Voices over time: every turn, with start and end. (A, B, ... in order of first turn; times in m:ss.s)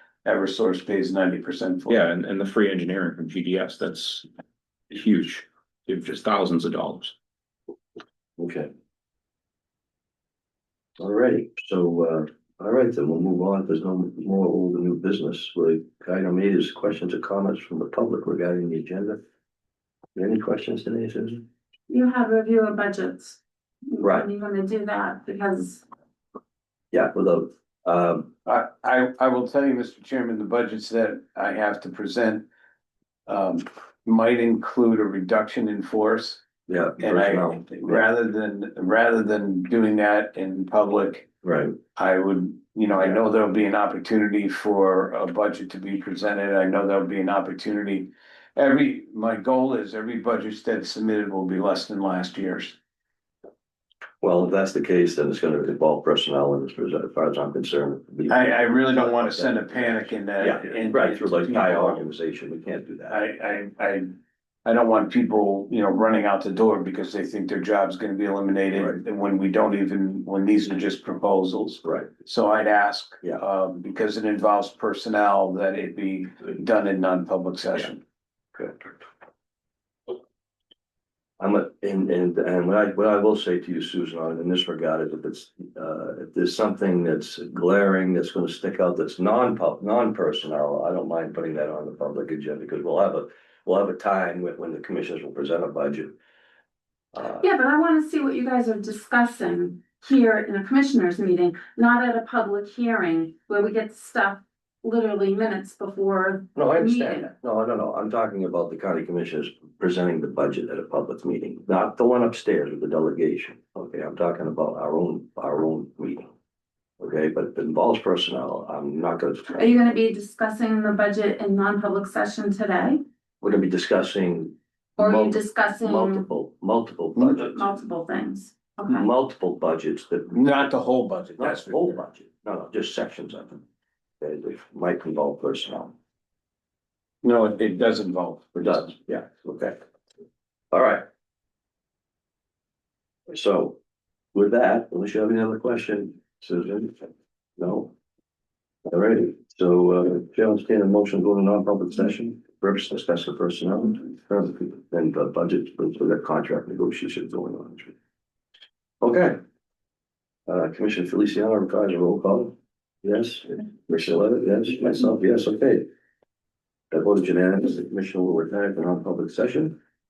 0:00.2-0:02.0 A
0:01.9-0:04.3 B
0:04.9-0:07.1 B
0:08.4-0:08.7 C
0:11.0-0:19.2 C
0:20.1-0:21.4 C
0:21.9-0:25.8 D
0:24.0-0:24.3 C
0:26.9-0:28.3 C
0:28.4-0:32.4 A
0:33.2-0:36.4 A
0:36.7-0:38.0 C
0:37.0-0:41.3 A
0:41.4-0:41.8 C
0:41.9-0:52.8 A
0:54.2-1:03.2 C
0:58.3-1:02.0 A
1:03.1-1:18.0 A
1:18.5-1:18.9 C
1:21.4-1:36.2 C
1:37.1-1:37.4 C
1:37.4-1:47.3 D
1:46.5-1:56.3 C
1:57.0-1:59.8 C
1:59.6-2:03.0 D
2:03.4-2:07.7 C
2:05.0-2:06.2 D
2:07.2-2:09.0 D
2:08.9-2:10.7 C
2:10.3-2:12.0 A
2:11.4-2:13.6 C
2:14.2-2:15.9 C
2:17.2-2:19.0 A
2:18.6-2:19.8 C
2:20.7-2:21.0 C
2:23.3-2:23.8 C
2:24.3-2:27.9 C
2:28.8-2:37.9 C
2:39.0-2:39.4 C
2:40.5-2:45.9 C
2:46.9-2:49.8 C